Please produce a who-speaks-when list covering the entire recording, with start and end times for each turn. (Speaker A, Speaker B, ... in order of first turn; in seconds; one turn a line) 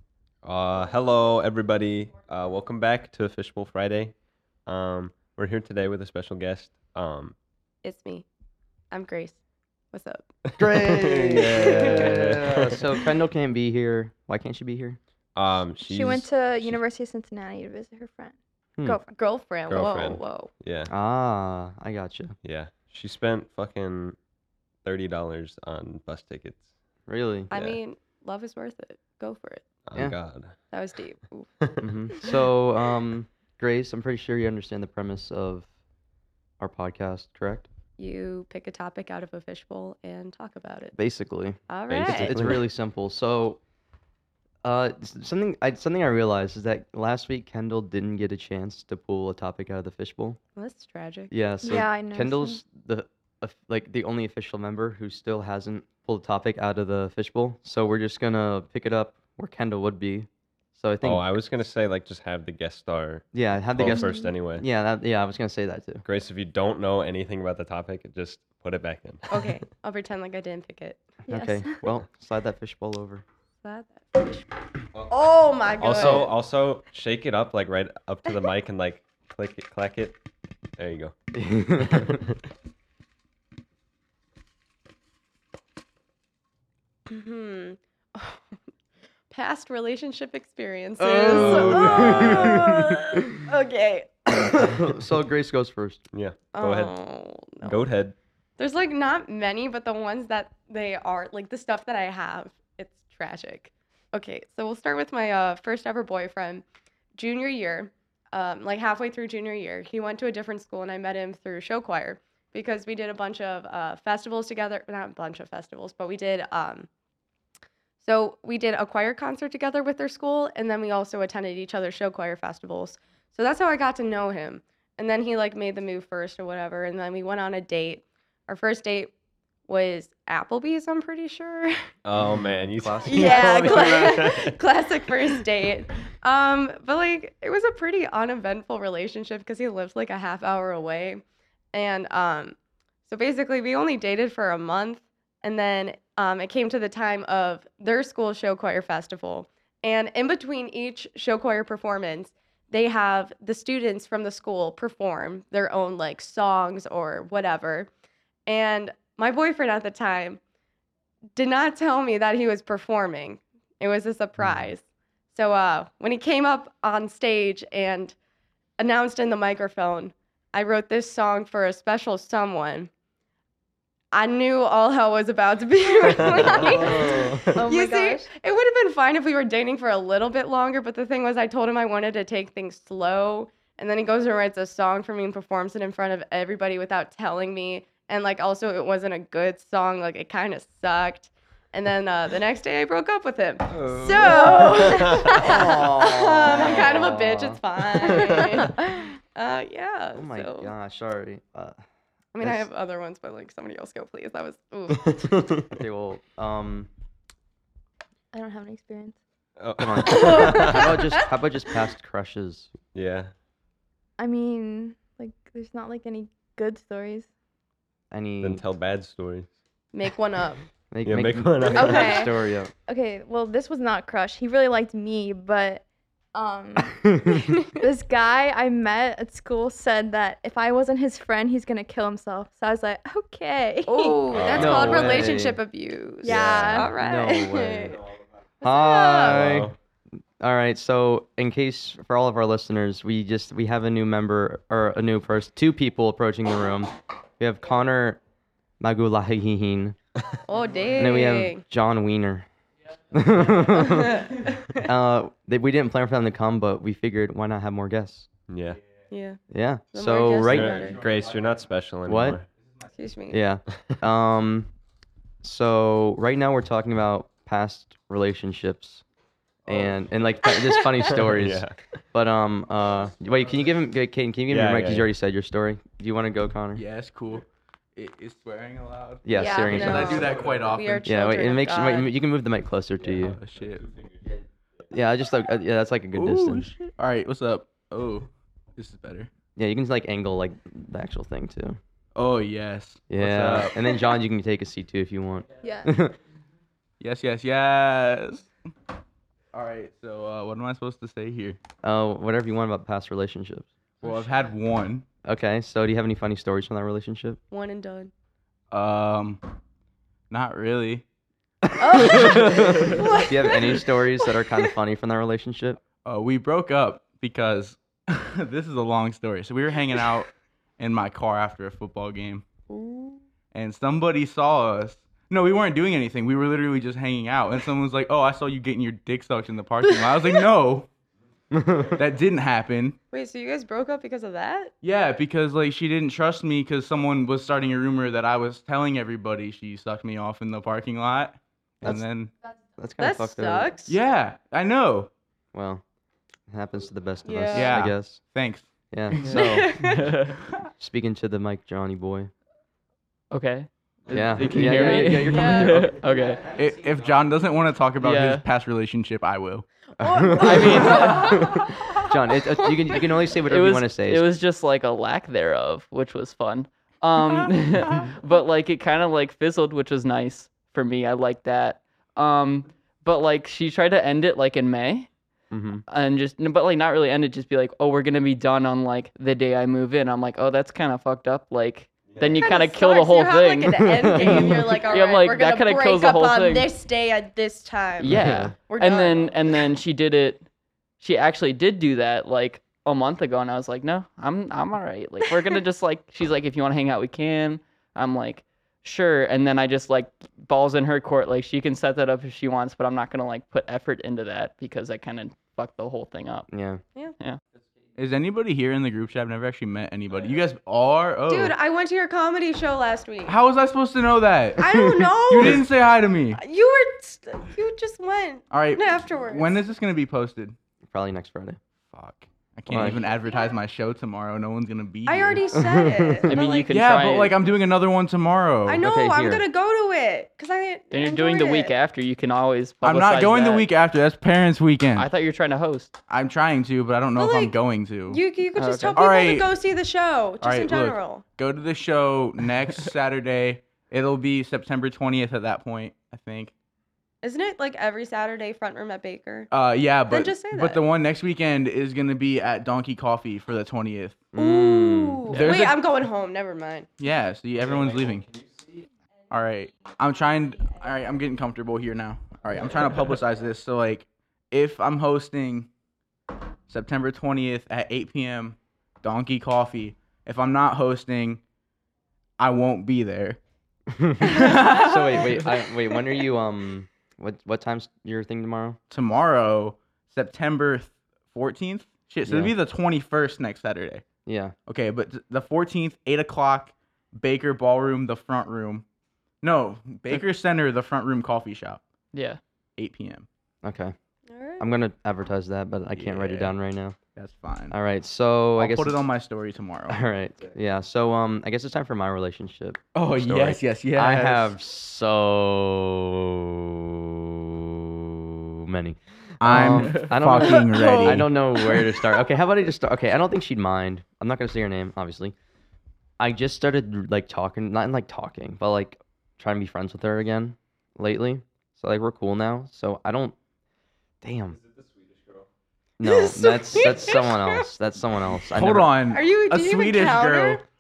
Speaker A: 0.4-4.1
Speaker A: 4.7-7.3
Speaker B: 7.8-8.3
Speaker B: 8.9-9.4
Speaker B: 9.9-10.3
Speaker A: 10.5-12.8
Speaker C: 10.6-15.0
Speaker B: 11.5-12.3
Speaker A: 15.4-16.8
Speaker D: 15.8-19.1
Speaker B: 19.1-20.5
Speaker A: 19.7-20.9
Speaker C: 20.9-22.4
Speaker A: 22.4-24.2
Speaker A: 24.8-26.6
Speaker C: 27.1-27.5
Speaker B: 27.5-29.6
Speaker A: 27.5-27.8
Speaker A: 29.9-30.6
Speaker B: 30.7-31.5
Speaker C: 31.8-35.7
Speaker C: 36.6-37.7
Speaker B: 38.0-41.0
Speaker C: 41.0-43.6
Speaker B: 41.7-42.6
Speaker A: 41.9-42.7
Speaker C: 44.6-50.4
Speaker B: 50.6-51.3
Speaker C: 51.3-61.3
Speaker D: 51.6-52.6
Speaker A: 61.0-64.7
Speaker C: 63.3-66.0
Speaker B: 63.8-64.3
Speaker A: 66.0-69.6
Speaker B: 69.3-71.8
Speaker C: 71.3-73.2
Speaker B: 73.6-74.5
Speaker A: 75.0-80.2
Speaker B: 75.1-76.3
Speaker C: 75.9-76.3
Speaker A: 80.8-81.2
Speaker C: 81.3-82.2
Speaker A: 81.9-82.4
Speaker B: 87.1-88.5
Speaker B: 89.3-94.9
Speaker C: 91.0-93.0
Speaker E: 91.3-92.2
Speaker A: 91.3-92.8
Speaker C: 94.4-96.0
Speaker A: 96.1-96.9
Speaker B: 96.5-97.8
Speaker A: 97.6-98.2
Speaker B: 98.6-106.6
Speaker B: 107.2-116.9
Speaker B: 118.0-129.1
Speaker B: 129.7-131.8
Speaker A: 132.1-134.6
Speaker C: 132.3-134.1
Speaker B: 133.1-142.6
Speaker B: 143.1-157.9
Speaker B: 158.5-160.4
Speaker B: 161.4-164.8
Speaker B: 165.3-168.2
Speaker B: 168.8-172.9
Speaker B: 174.1-200.7
Speaker A: 176.2-176.8
Speaker D: 176.3-178.3
Speaker C: 176.4-177.7
Speaker E: 193.8-194.8
Speaker C: 194.1-194.6
Speaker A: 194.7-195.3
Speaker C: 195.3-197.6
Speaker C: 200.1-201.8
Speaker B: 202.3-205.3
Speaker C: 202.4-202.7
Speaker C: 205.7-206.9
Speaker D: 208.3-209.2
Speaker A: 209.6-211.0
Speaker C: 209.8-212.7
Speaker B: 210.0-211.3
Speaker A: 212.9-213.3
Speaker D: 214.2-217.3
Speaker C: 218.1-218.6
Speaker A: 218.4-219.5
Speaker B: 219.9-220.6
Speaker C: 220.9-222.7
Speaker A: 221.0-222.3
Speaker B: 221.7-222.3
Speaker D: 222.9-235.0
Speaker B: 233.9-238.0
Speaker A: 234.3-235.3
Speaker C: 234.5-235.6
Speaker D: 236.2-236.9
Speaker A: 236.2-236.9
Speaker C: 236.3-238.0
Speaker B: 238.6-239.4
Speaker C: 238.6-239.8
Speaker A: 239.3-239.7
Speaker C: 240.4-248.2
Speaker C: 248.8-250.0
Speaker B: 250.5-251.6
Speaker C: 250.9-252.5
Speaker C: 253.1-258.3
Speaker B: 253.7-254.8
Speaker A: 258.5-258.8
Speaker B: 259.1-259.4
Speaker C: 259.5-260.9
Speaker B: 259.9-261.0
Speaker A: 260.4-262.5
Speaker C: 262.1-262.4
Speaker B: 263.0-263.4
Speaker C: 263.3-264.7
Speaker C: 265.4-269.0
Speaker E: 269.7-270.0
Speaker C: 269.7-276.8
Speaker B: 270.5-271.2
Speaker A: 271.1-271.8
Speaker A: 274.5-275.1
Speaker E: 276.8-281.1
Speaker C: 279.2-280.3
Speaker B: 279.3-282.1
Speaker D: 279.4-279.8
Speaker C: 281.0-283.4
Speaker E: 283.1-283.9
Speaker C: 284.9-286.7
Speaker E: 286.1-289.3
Speaker C: 289.6-291.8
Speaker E: 292.1-294.1
Speaker C: 293.1-296.2
Speaker D: 295.6-295.9
Speaker E: 297.0-298.5
Speaker E: 299.5-301.6
Speaker C: 301.8-303.7
Speaker E: 304.0-305.1
Speaker C: 305.2-307.4
Speaker B: 307.5-308.1
Speaker E: 308.7-309.4
Speaker E: 310.3-311.1
Speaker C: 311.6-315.8
Speaker B: 311.8-314.7
Speaker E: 316.0-322.5
Speaker B: 322.7-323.2
Speaker E: 323.5-330.9
Speaker C: 331.5-332.0
Speaker E: 331.9-333.0
Speaker B: 333.1-334.7
Speaker E: 334.8-342.3
Speaker C: 342.8-343.7
Speaker B: 343.0-344.0
Speaker E: 343.9-345.1
Speaker C: 345.5-345.8
Speaker C: 346.5-348.2
Speaker B: 347.2-347.8
Speaker E: 347.5-348.7
Speaker C: 348.9-349.8
Speaker F: 349.2-350.4
Speaker B: 349.3-350.1
Speaker C: 350.8-352.3
Speaker F: 353.3-356.4
Speaker C: 354.1-356.6
Speaker B: 354.7-356.0
Speaker E: 356.5-359.7
Speaker F: 358.0-358.4
Speaker B: 360.0-363.1
Speaker C: 360.0-364.3
Speaker F: 360.4-361.4
Speaker F: 363.5-375.1
Speaker C: 375.5-375.8
Speaker F: 375.9-386.7
Speaker A: 382.1-382.4
Speaker B: 382.4-388.2
Speaker C: 383.8-384.8
Speaker F: 388.0-390.4
Speaker C: 388.1-388.6
Speaker B: 388.7-389.4
Speaker F: 391.0-406.5
Speaker C: 406.5-406.8
Speaker E: 408.0-411.6
Speaker B: 411.3-413.4
Speaker E: 413.3-416.4
Speaker B: 414.6-415.7
Speaker B: 416.4-419.7
Speaker E: 418.5-420.6
Speaker C: 420.9-421.6
Speaker E: 421.9-425.6
Speaker C: 422.7-423.0
Speaker B: 422.8-423.6
Speaker B: 425.1-426.7
Speaker C: 425.6-426.4
Speaker F: 426.3-427.4
Speaker E: 426.7-428.8
Speaker B: 428.7-431.7
Speaker C: 428.8-429.4
Speaker F: 430.9-433.7
Speaker E: 432.8-435.1
Speaker F: 435.0-435.9
Speaker E: 436.1-438.2
Speaker B: 437.2-441.2
Speaker F: 438.6-439.0
Speaker E: 438.9-439.5
Speaker E: 440.4-446.5
Speaker B: 447.2-449.5
Speaker E: 449.5-454.3
Speaker B: 450.1-450.9
Speaker C: 454.3-455.2
Speaker B: 454.4-456.9
Speaker E: 455.3-455.8
Speaker E: 457.0-458.3
Speaker E: 459.3-465.7
Speaker E: 466.7-471.4
Speaker E: 472.4-473.4
Speaker C: 473.9-478.8
Speaker B: 474.2-475.2
Speaker E: 474.2-475.5
Speaker E: 478.9-484.1
Speaker C: 482.3-482.5
Speaker C: 484.3-484.6
Speaker E: 484.7-488.9
Speaker E: 489.4-491.8
Speaker F: 492.1-492.4
Speaker E: 492.8-493.3
Speaker C: 493.6-493.9
Speaker B: 494.3-494.7
Speaker C: 494.6-497.0
Speaker E: 495.9-496.5
Speaker E: 497.1-497.8
Speaker C: 497.7-499.0
Speaker E: 498.6-500.0
Speaker C: 499.9-515.4
Speaker E: 502.9-504.5
Speaker E: 509.4-511.3
Speaker B: 510.4-512.2
Speaker C: 516.2-523.4
Speaker C: 524.2-524.6
Speaker A: 524.8-525.4
Speaker C: 526.0-528.9
Speaker B: 526.0-527.6
Speaker E: 528.5-530.6
Speaker B: 529.1-530.6